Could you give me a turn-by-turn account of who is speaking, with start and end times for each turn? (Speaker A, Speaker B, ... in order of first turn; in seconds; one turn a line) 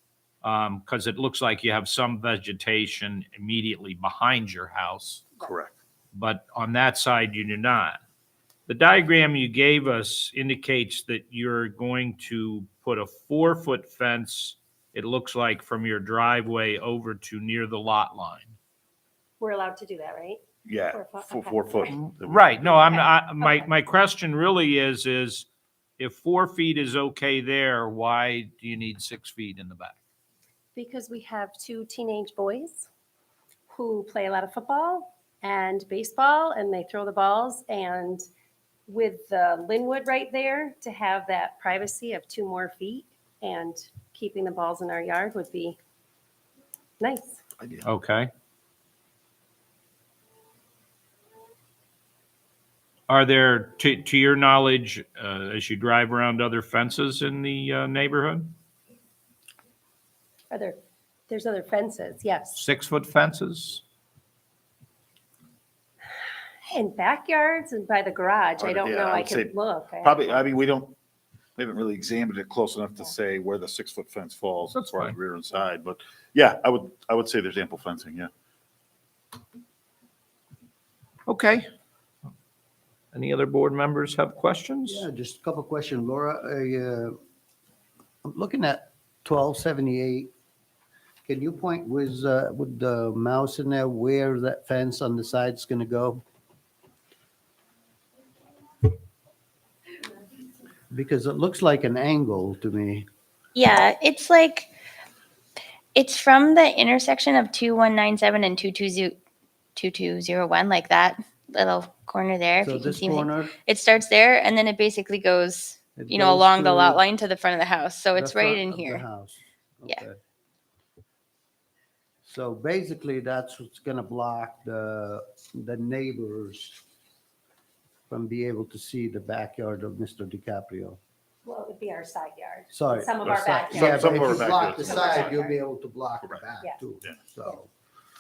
Speaker A: 0.4-5.3
Speaker B: 5.4-5.7
Speaker A: 6.1-8.0
Speaker A: 8.7-18.6
Speaker C: 19.4-21.9
Speaker B: 20.6-22.9
Speaker A: 21.9-25.5
Speaker C: 22.7-23.7
Speaker A: 26.0-30.0
Speaker C: 30.8-32.9
Speaker C: 33.7-38.2
Speaker C: 38.9-45.8
Speaker C: 47.0-47.4
Speaker B: 47.6-47.9
Speaker A: 47.8-48.3
Speaker A: 53.1-58.6
Speaker C: 60.5-62.6
Speaker A: 62.6-63.8
Speaker C: 66.7-70.4
Speaker B: 68.6-71.0
Speaker B: 71.6-78.3
Speaker A: 74.7-75.1
Speaker A: 81.3-81.7
Speaker A: 83.1-85.1
Speaker D: 84.9-87.2
Speaker D: 88.2-90.3
Speaker D: 91.2-96.2
Speaker D: 100.9-103.1
Speaker E: 103.5-104.7
Speaker E: 106.0-109.2
Speaker E: 109.8-119.0
Speaker D: 112.6-113.5
Speaker D: 116.0-117.1
Speaker D: 118.1-120.2
Speaker D: 122.2-126.8
Speaker D: 128.1-131.0
Speaker C: 131.4-135.6
Speaker D: 132.7-137.7
Speaker B: 133.2-135.3